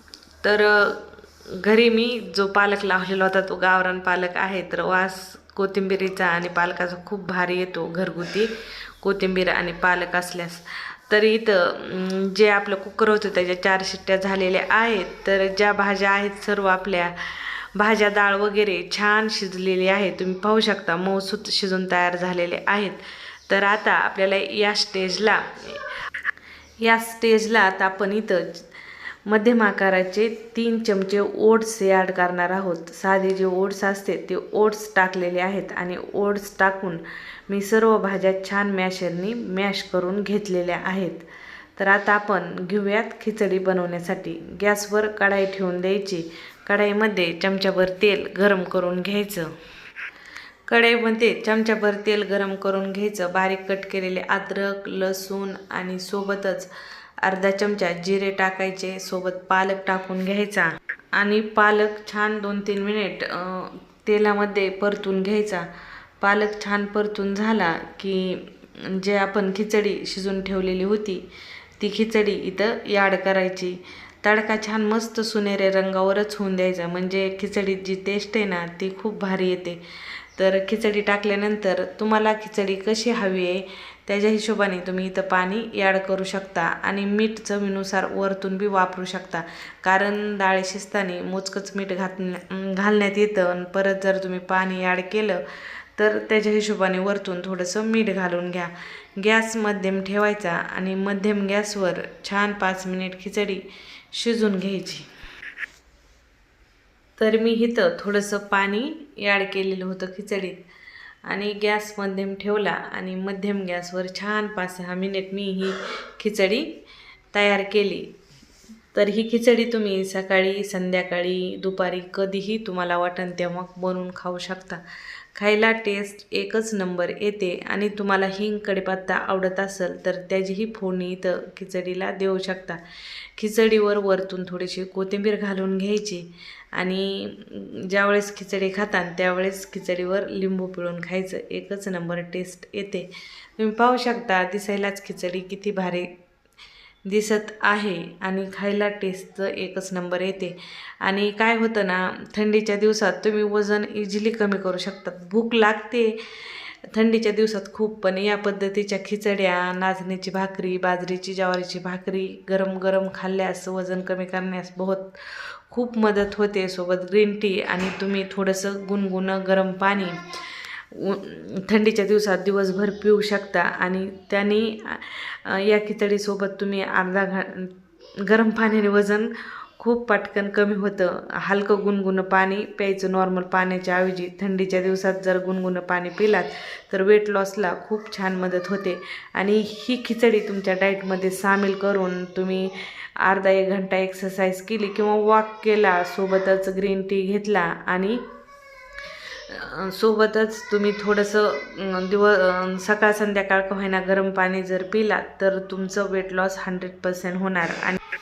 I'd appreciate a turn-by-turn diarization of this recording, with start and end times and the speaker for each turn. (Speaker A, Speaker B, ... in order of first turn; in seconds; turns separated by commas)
Speaker A: 0.4-25.8, Speaker A: 26.8-28.6, Speaker A: 29.3-41.2, Speaker A: 41.8-49.5, Speaker A: 50.7-56.7, Speaker A: 57.2-65.7, Speaker A: 66.2-71.2, Speaker A: 71.8-79.8, Speaker A: 80.3-95.4, Speaker A: 96.0-103.6, Speaker A: 104.1-105.1, Speaker A: 107.2-110.5, Speaker A: 111.3-116.7, Speaker A: 117.3-118.1, Speaker A: 118.9-124.8, Speaker A: 125.3-132.8, Speaker A: 133.4-136.2, Speaker A: 136.7-146.1, Speaker A: 147.1-198.2, Speaker A: 199.5-208.0